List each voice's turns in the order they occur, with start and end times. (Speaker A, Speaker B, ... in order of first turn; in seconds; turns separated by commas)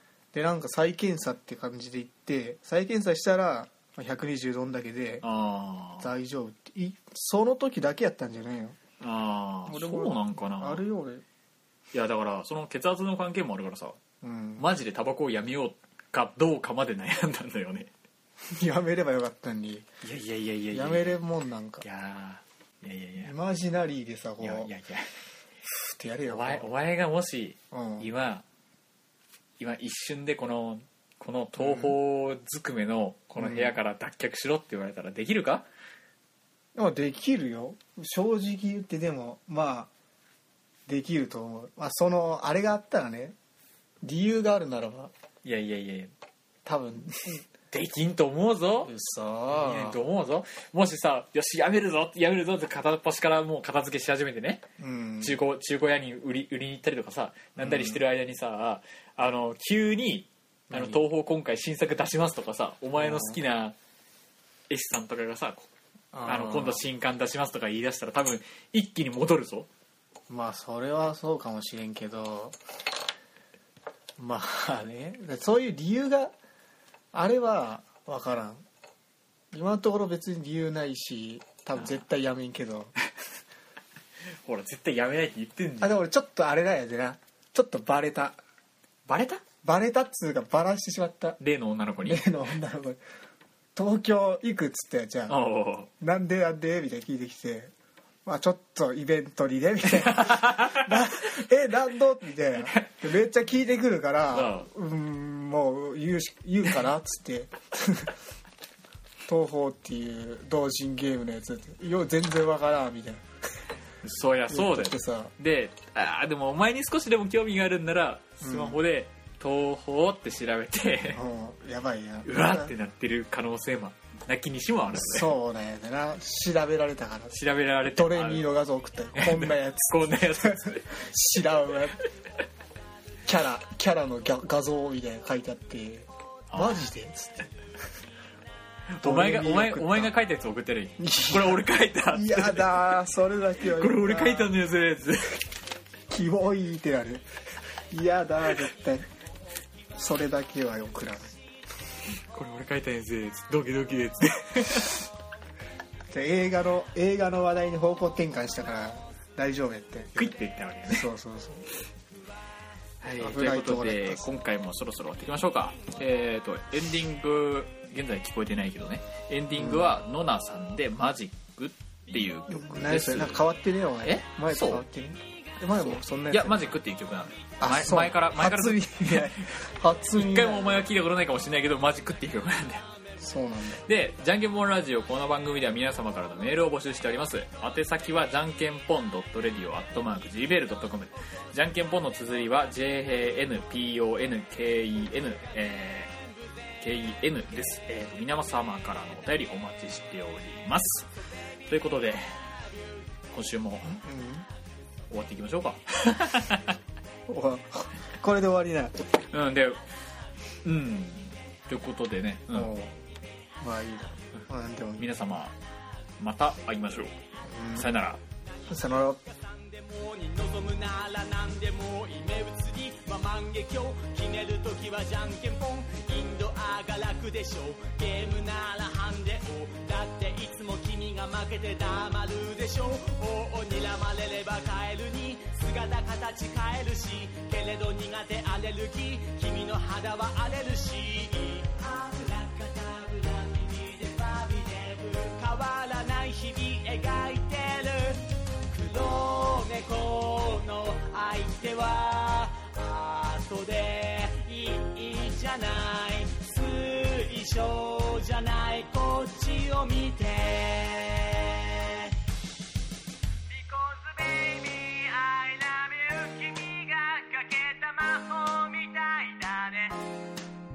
Speaker A: 0.3-5.2, Speaker B: 5.2-6.1, Speaker A: 6.0-8.8, Speaker B: 9.0-10.8, Speaker A: 9.7-11.2, Speaker B: 11.9-14.0, Speaker A: 14.2-14.7, Speaker B: 14.6-17.9, Speaker A: 18.5-19.9, Speaker B: 20.0-21.2, Speaker A: 20.7-21.8, Speaker B: 21.8-23.3, Speaker A: 23.2-24.7, Speaker B: 24.4-25.1, Speaker A: 25.6-26.6, Speaker B: 26.3-28.4, Speaker A: 27.7-28.1, Speaker B: 29.6-35.6, Speaker A: 31.6-31.9, Speaker A: 33.4-33.8, Speaker A: 36.7-39.9, Speaker A: 40.9-43.4, Speaker A: 44.0-45.1, Speaker B: 45.4-46.1, Speaker A: 46.6-47.4, Speaker B: 47.7-48.9, Speaker A: 48.8-50.0, Speaker B: 49.5-54.6, Speaker A: 54.8-55.4, Speaker B: 55.2-63.8, Speaker A: 57.6-58.0, Speaker A: 60.7-61.0, Speaker A: 63.0-63.4, Speaker B: 64.7-65.7, Speaker A: 66.1-66.8, Speaker B: 66.2-69.7, Speaker A: 70.3-72.6, Speaker A: 74.2-76.3, Speaker A: 77.1-78.6, Speaker A: 79.5-82.9, Speaker B: 84.5-86.0, Speaker A: 85.8-88.4, Speaker B: 89.1-89.4, Speaker A: 89.6-91.4, Speaker B: 91.4-92.2, Speaker A: 92.0-93.0, Speaker A: 93.7-95.4, Speaker B: 95.3-95.9, Speaker A: 96.0-97.7, Speaker A: 98.2-108.1, Speaker B: 100.0-101.0, Speaker B: 104.3-104.7, Speaker A: 109.3-113.2, Speaker B: 114.0-121.2, Speaker A: 114.5-115.3, Speaker A: 118.4-118.8, Speaker A: 121.1-122.7, Speaker B: 122.2-125.3, Speaker A: 124.9-127.4, Speaker B: 127.3-128.5, Speaker A: 127.9-132.0, Speaker B: 129.1-131.0, Speaker A: 133.2-137.5, Speaker B: 136.5-136.8, Speaker B: 139.0-142.8, Speaker A: 139.0-140.1, Speaker A: 141.0-144.5, Speaker B: 143.7-145.4, Speaker A: 146.1-147.2, Speaker A: 147.9-149.1, Speaker A: 150.0-151.4, Speaker B: 152.3-155.0, Speaker A: 156.1-160.4, Speaker B: 160.2-161.1, Speaker A: 160.9-161.7, Speaker B: 163.0-173.4, Speaker A: 163.0-164.2, Speaker A: 169.6-169.9, Speaker A: 172.5-176.8, Speaker B: 174.0-174.8, Speaker B: 175.8-179.6, Speaker A: 177.6-180.9, Speaker B: 180.1-182.8, Speaker A: 183.2-183.8, Speaker B: 183.8-196.1, Speaker B: 196.8-201.1, Speaker B: 201.7-202.5, Speaker B: 203.3-204.0, Speaker A: 203.8-204.4, Speaker B: 205.1-206.8, Speaker A: 207.3-209.0, Speaker B: 209.3-209.9, Speaker B: 210.6-212.7, Speaker A: 212.5-213.0, Speaker A: 213.6-215.1, Speaker B: 215.0-215.5, Speaker B: 216.2-217.2, Speaker A: 217.4-217.9, Speaker B: 217.7-218.2, Speaker A: 218.7-219.2, Speaker C: 219.0-262.1, Speaker C: 263.5-270.1